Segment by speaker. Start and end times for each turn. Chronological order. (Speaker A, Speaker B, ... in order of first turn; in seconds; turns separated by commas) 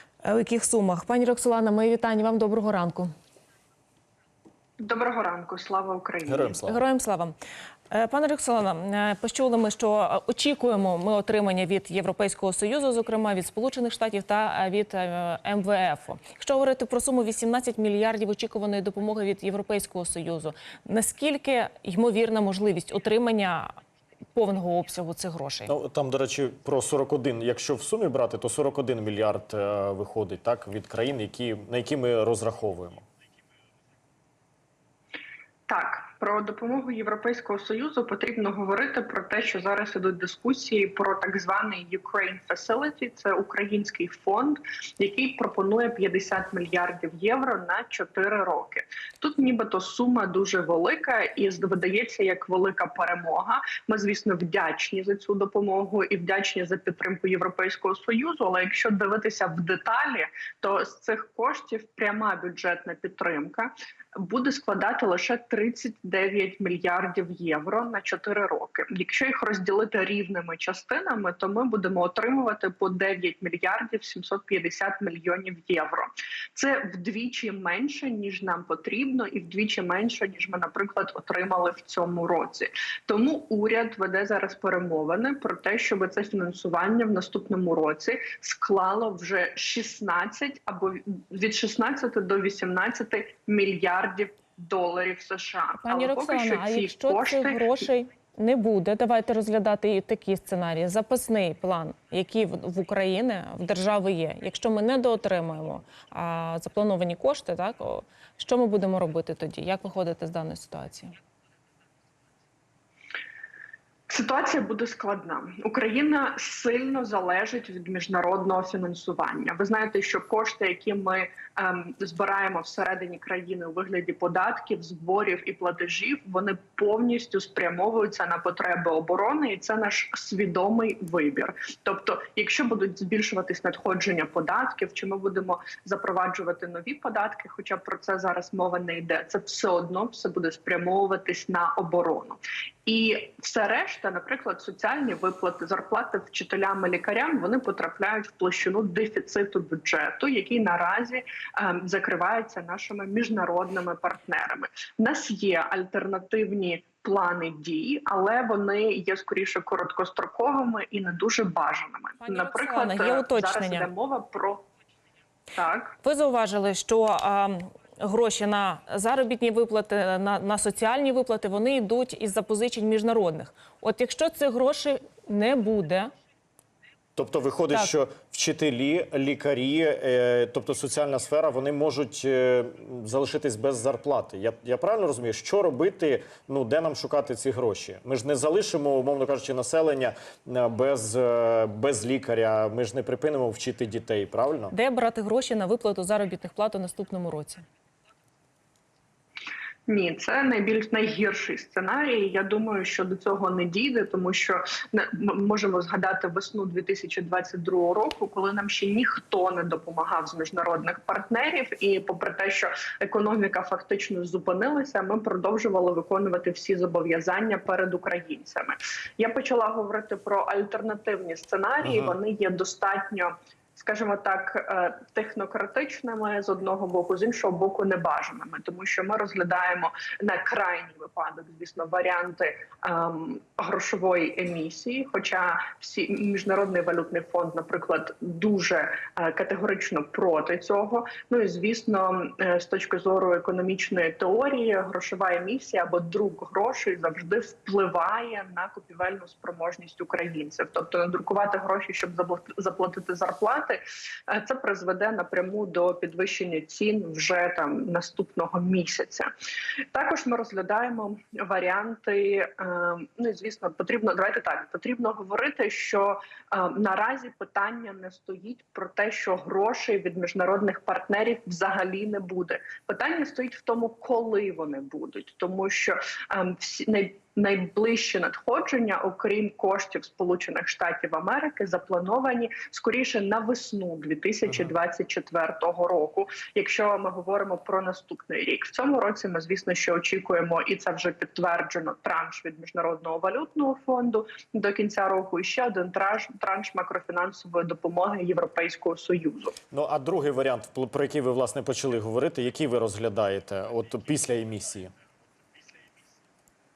Speaker A: 0.2-3.1, Speaker B: 4.8-6.5, Speaker C: 6.2-6.8, Speaker A: 6.6-7.4, Speaker A: 7.9-23.7, Speaker A: 24.3-25.7, Speaker C: 25.7-33.0, Speaker B: 35.7-97.7, Speaker A: 95.8-111.1, Speaker B: 114.1-164.7, Speaker A: 162.2-163.9, Speaker B: 165.6-166.0, Speaker A: 166.0-176.1, Speaker C: 177.2-194.7, Speaker A: 194.7-197.6, Speaker B: 199.9-259.3, Speaker C: 221.8-222.2, Speaker B: 259.9-299.6, Speaker C: 299.7-304.9